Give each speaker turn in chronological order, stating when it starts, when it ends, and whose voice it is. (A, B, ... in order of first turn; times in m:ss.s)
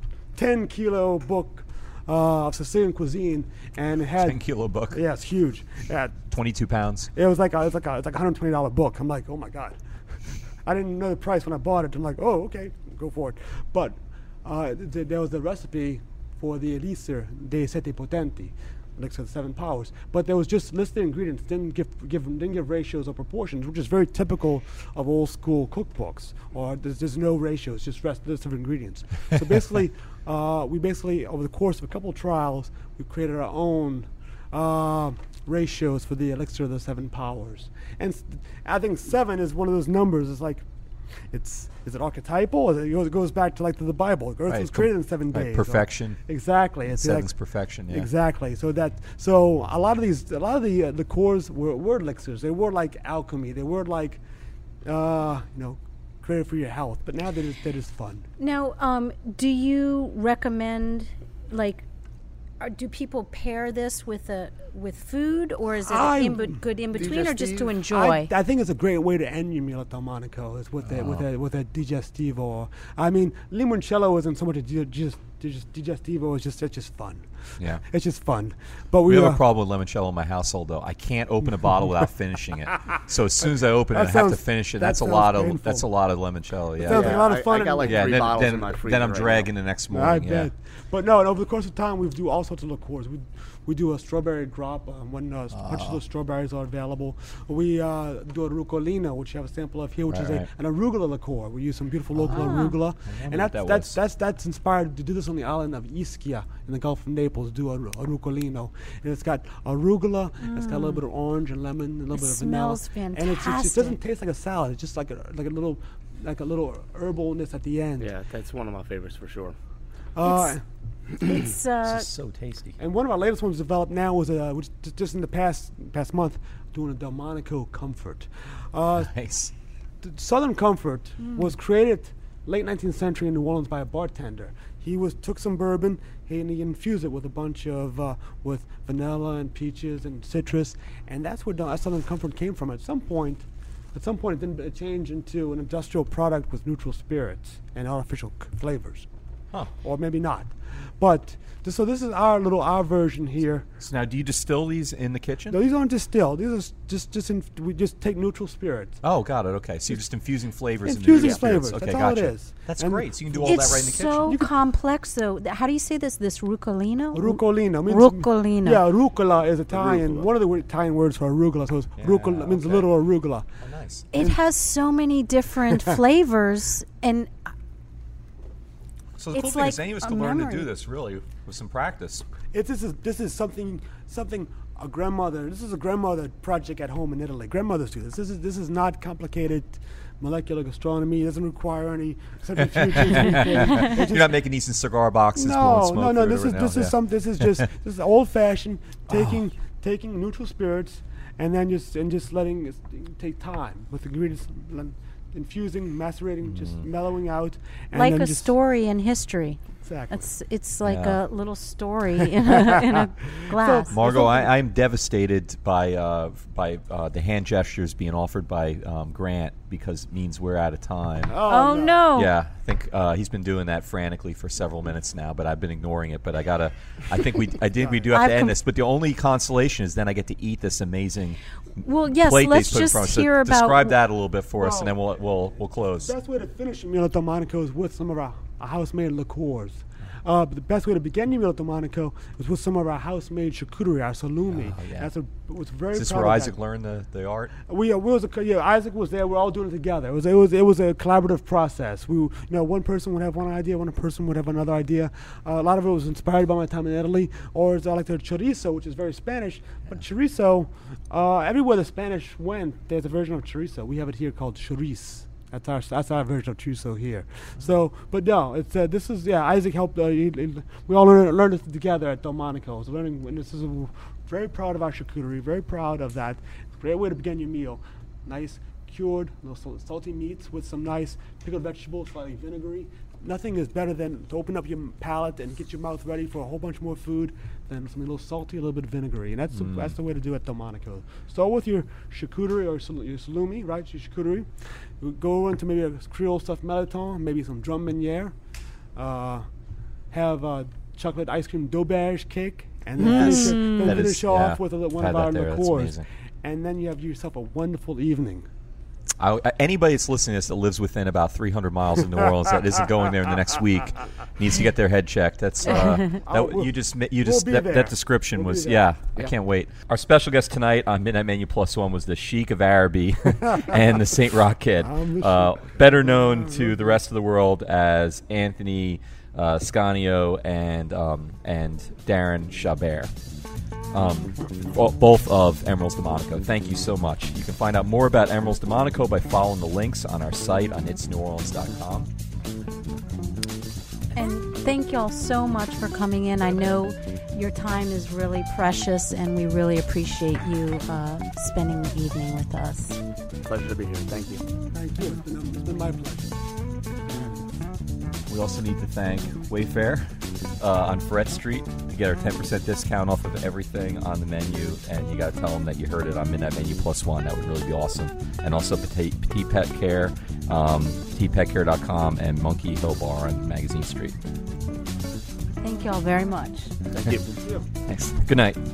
0:00.3-0:06.2 A
0:04.2-0:05.0 B
0:06.3-0:07.1 B
0:07.1-0:54.2 A
0:44.5-0:46.2 B
0:46.8-0:48.1 B
0:54.8-0:58.2 A
0:58.4-1:01.9 C
1:02.6-1:08.3 C
1:05.8-1:06.6 A
1:06.9-1:07.7 D
1:07.9-1:19.4 A
1:10.8-1:11.3 B
1:17.6-1:17.8 B
1:19.1-1:30.5 B
1:23.9-1:25.9 A
1:26.8-1:28.2 A
1:26.9-1:29.5 D
1:29.9-1:58.1 A
1:35.5-1:36.0 B
1:40.1-1:40.5 B
1:42.1-1:44.0 B
1:42.3-1:42.8 C
1:50.4-1:51.0 C
1:52.1-1:54.0 C
1:58.0-1:59.6 D
2:00.2-2:00.6 A
2:00.2-2:02.1 C
2:01.8-2:02.8 B
2:02.8-2:09.2 A
2:09.1-2:09.5 B
2:10.0-2:29.1 A
2:29.8-2:33.7 A
2:33.8-2:35.6 B
2:35.5-2:39.0 A
2:39.0-2:44.4 B
2:40.8-2:44.5 A
2:43.4-2:48.8 C
2:47.1-2:53.5 A
2:49.7-2:50.3 D
2:52.0-2:52.9 B
2:53.6-2:54.1 B
2:54.1-2:57.3 C
2:54.1-2:54.4 A
2:59.2-3:02.3 B
2:59.3-3:00.7 C
3:02.5-3:14.4 A
3:12.8-3:17.5 B
3:13.3-3:13.7 C
3:15.4-3:28.5 A
3:26.4-3:26.9 B
3:27.9-3:33.9 C
3:29.8-3:30.3 A
3:30.8-3:31.2 B
3:33.6-3:34.6 A
3:33.9-3:41.4 B
3:41.3-3:42.0 A
3:41.5-3:42.3 C
3:42.2-3:56.1 B
3:47.8-3:48.1 A
3:48.1-3:48.6 C
3:51.8-3:54.0 C
3:54.6-3:55.2 A
3:56.0-4:06.6 A
4:04.5-4:05.1 B
4:05.9-4:07.5 B
4:07.7-5:08.5 A
4:49.5-4:50.0 B
5:03.0-5:04.0 C
5:03.0-5:06.1 B
5:09.2-5:33.1 B
5:15.7-5:18.9 A
5:15.8-5:16.1 C
5:24.8-5:26.7 A
5:33.9-5:42.1 B
5:44.1-5:53.0 C
5:53.4-5:54.4 D
5:54.7-5:56.4 A
5:56.9-5:57.5 A
5:58.3-6:14.2 B
6:15.6-6:16.7 C
6:16.9-6:17.4 D
6:17.0-6:17.2 B
6:17.8-6:18.6 B